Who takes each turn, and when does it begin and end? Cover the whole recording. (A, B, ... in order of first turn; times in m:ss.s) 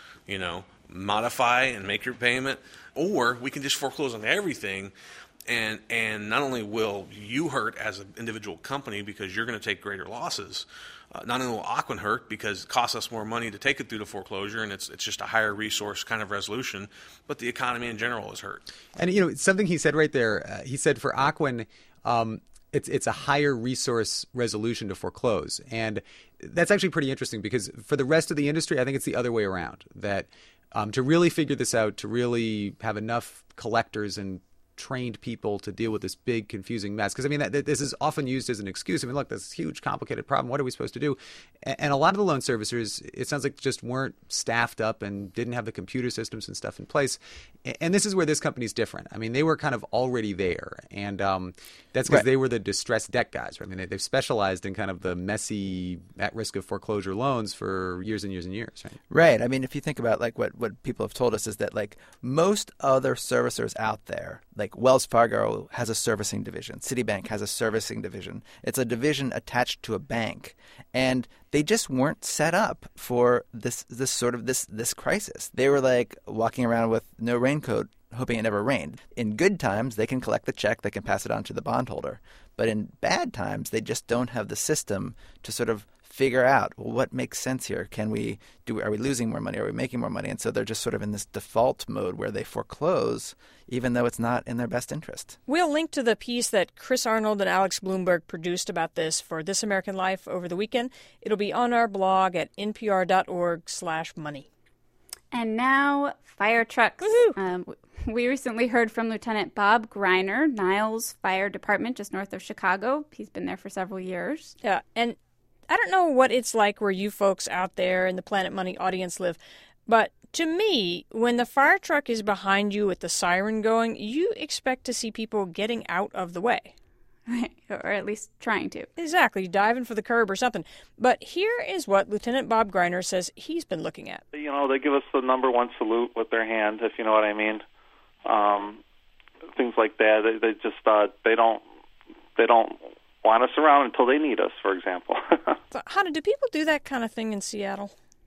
0:00.3-0:04.9 A
0:05.5-0:18.6 A
0:19.0-0:59.0 B
0:59.1-1:35.4 C
1:35.5-1:44.5 D
1:45.3-1:54.6 E
1:47.0-1:47.3 D
1:54.6-1:55.2 D
1:55.7-2:06.7 D
2:07.3-2:08.9 E
2:09.0-2:14.2 D
2:14.3-2:17.6 F
2:18.2-2:18.8 F
2:19.5-2:21.6 F
2:22.4-2:25.6 F
2:25.7-2:27.9 D